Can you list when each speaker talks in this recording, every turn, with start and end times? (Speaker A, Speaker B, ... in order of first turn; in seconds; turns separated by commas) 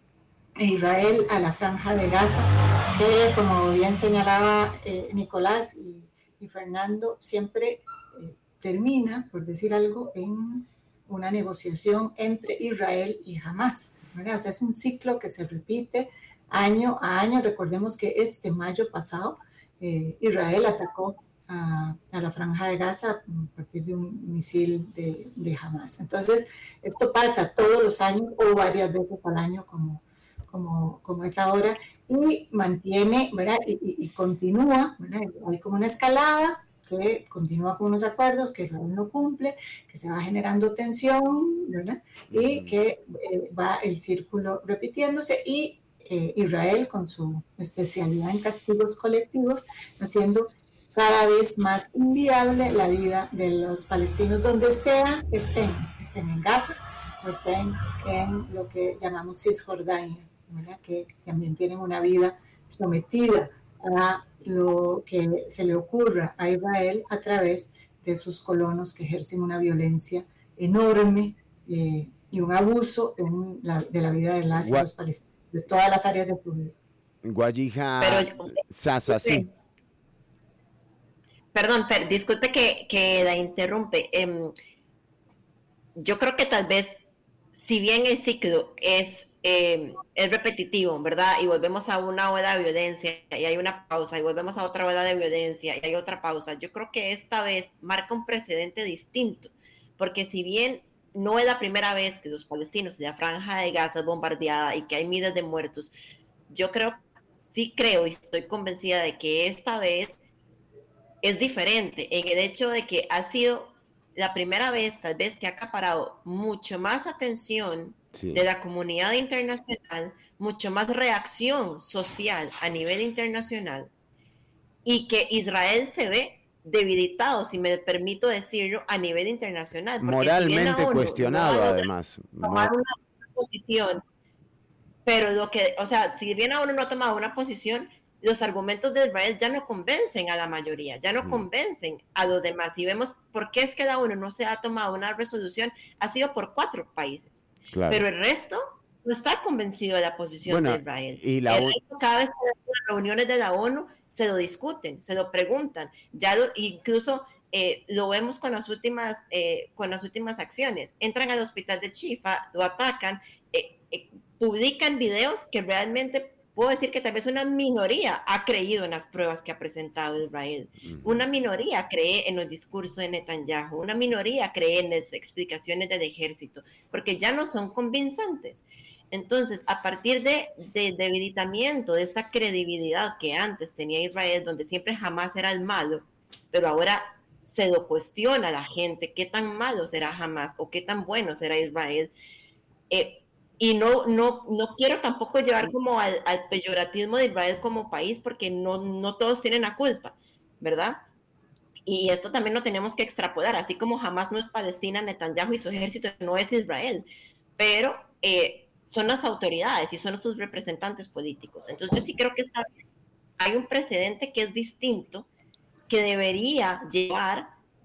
Speaker A: 0.6-76.7, Speaker B: 42.3-42.8, Speaker B: 74.6-74.9, Speaker B: 77.2-79.5, Speaker C: 78.0-79.5, Speaker C: 81.5-84.5, Speaker C: 86.0-87.0, Speaker C: 87.5-105.9, Speaker C: 106.5-107.0, Speaker C: 107.5-110.2, Speaker C: 111.2-123.9, Speaker B: 118.2-118.5, Speaker C: 124.8-131.8, Speaker B: 130.0-132.7, Speaker C: 132.4-134.0, Speaker C: 135.1-192.1, Speaker B: 147.7-148.1, Speaker B: 150.4-151.8, Speaker B: 170.8-171.2, Speaker C: 192.9-201.0, Speaker C: 201.9-207.1, Speaker C: 207.6-212.9, Speaker C: 213.4-215.3, Speaker C: 215.9-217.6